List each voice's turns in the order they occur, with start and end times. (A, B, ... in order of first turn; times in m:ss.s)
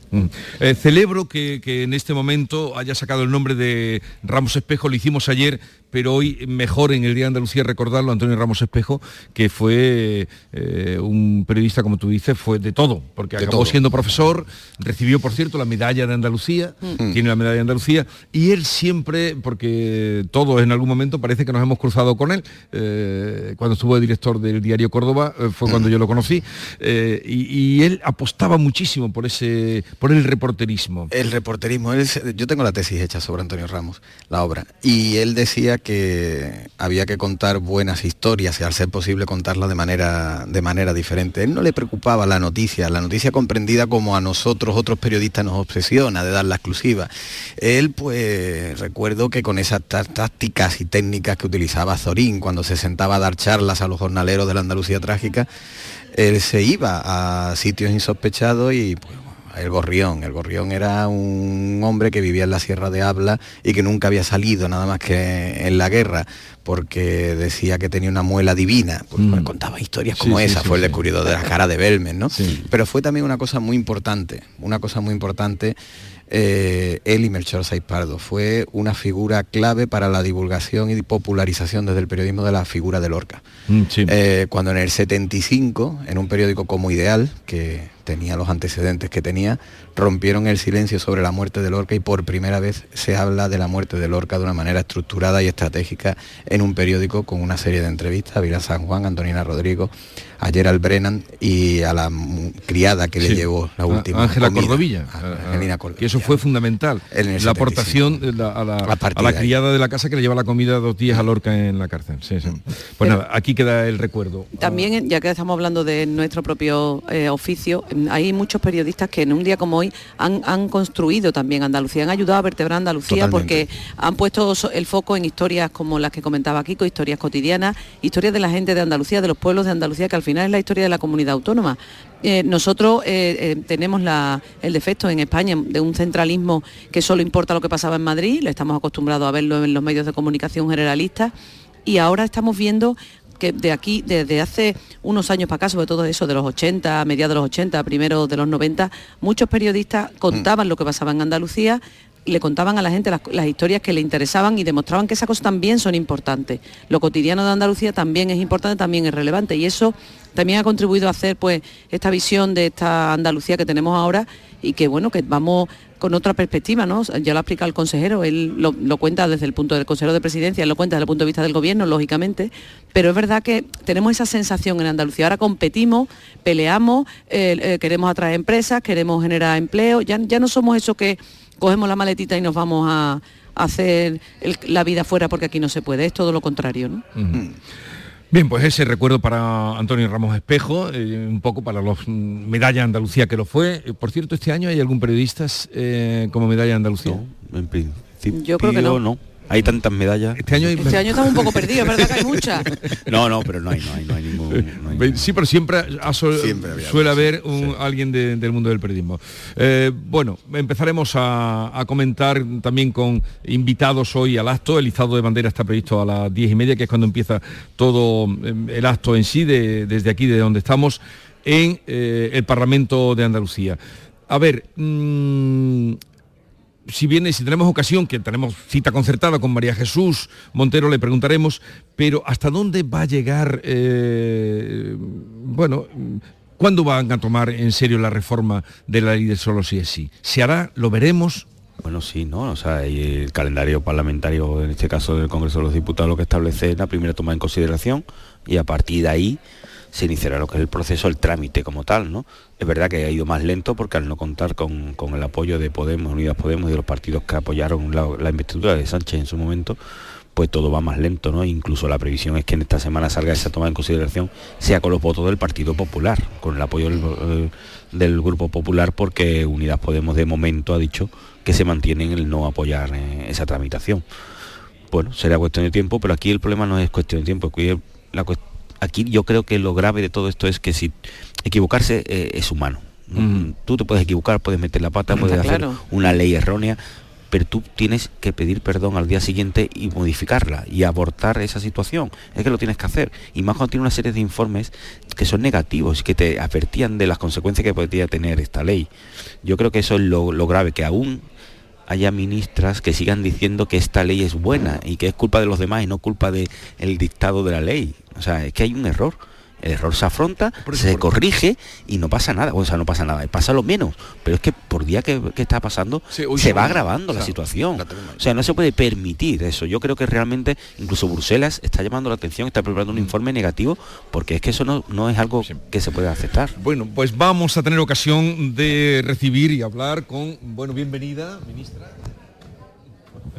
0:00.1-0:31.1 A
0:13.4-0:13.8 B
0:31.1-0:55.5 B
0:56.1-1:15.8 B
1:09.2-1:09.5 A
1:10.2-1:11.0 A
1:16.3-1:23.4 B
1:23.7-1:24.1 A
1:24.1-1:46.4 B
1:43.2-1:54.9 A
1:47.1-1:48.2 B
1:48.8-1:49.5 B
1:54.6-2:21.3 C
2:03.1-2:03.6 B
2:21.8-3:07.0 C
3:07.1-3:07.4 A
3:08.3-3:17.2 A
3:17.0-3:20.4 D
3:18.3-3:19.0 C
3:20.4-3:23.0 A
3:20.8-3:22.7 C
3:23.0-3:25.3 D
3:24.5-3:43.8 A
3:26.3-3:27.8 B
3:44.3-3:46.0 A
3:46.9-4:01.4 A
4:01.8-4:09.4 D
4:09.9-4:19.8 D
4:20.3-4:34.0 D
4:34.9-4:46.8 D
4:43.2-4:43.5 A
4:45.1-4:45.8 C
4:47.3-4:58.9 D
4:59.4-5:01.2 D
5:01.9-5:26.5 D
5:10.6-5:11.1 A
5:16.1-5:17.3 A
5:17.8-5:18.2 B
5:26.6-5:32.0 A